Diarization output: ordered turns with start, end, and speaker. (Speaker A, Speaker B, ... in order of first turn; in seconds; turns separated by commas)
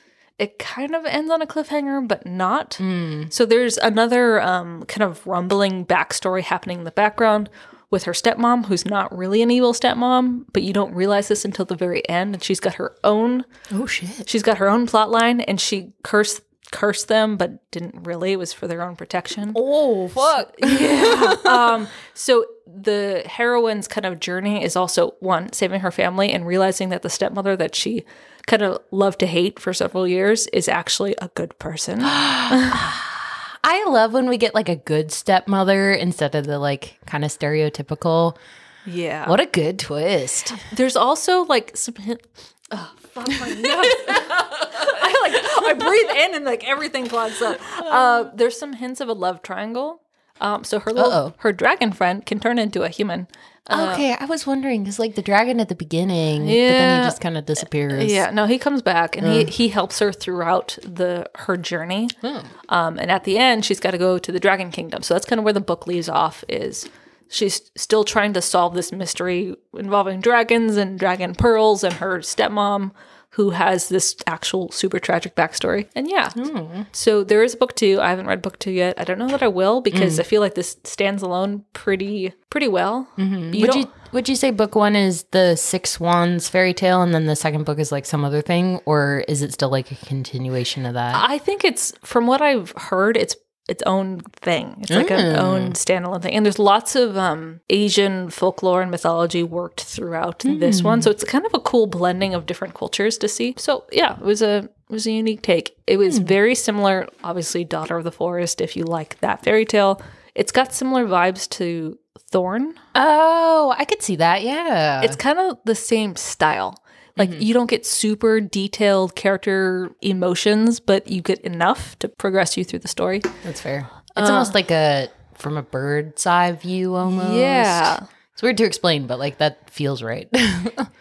Speaker A: 0.4-13.5, Speaker B: 2.8-3.3, Speaker B: 13.7-14.3, Speaker A: 14.2-19.6, Speaker B: 19.5-21.8, Speaker A: 20.1-32.9, Speaker B: 32.0-38.4, Speaker A: 38.9-39.4, Speaker B: 39.2-40.6, Speaker A: 40.5-54.1, Speaker B: 43.5-43.9, Speaker B: 47.8-48.3, Speaker B: 51.0-51.3, Speaker B: 53.7-58.2, Speaker A: 56.4-57.2, Speaker A: 57.9-62.1, Speaker B: 59.2-59.5, Speaker B: 62.2-62.5, Speaker A: 62.7-76.4, Speaker B: 76.4-76.9, Speaker A: 76.9-83.9, Speaker B: 79.9-80.2, Speaker B: 83.2-91.2, Speaker A: 91.1-112.8, Speaker B: 94.9-95.8, Speaker B: 100.5-101.1, Speaker B: 106.1-106.3, Speaker B: 113.0-115.2, Speaker A: 115.0-123.3, Speaker B: 117.2-117.5, Speaker B: 123.4-130.9, Speaker A: 124.2-124.5, Speaker A: 127.1-128.1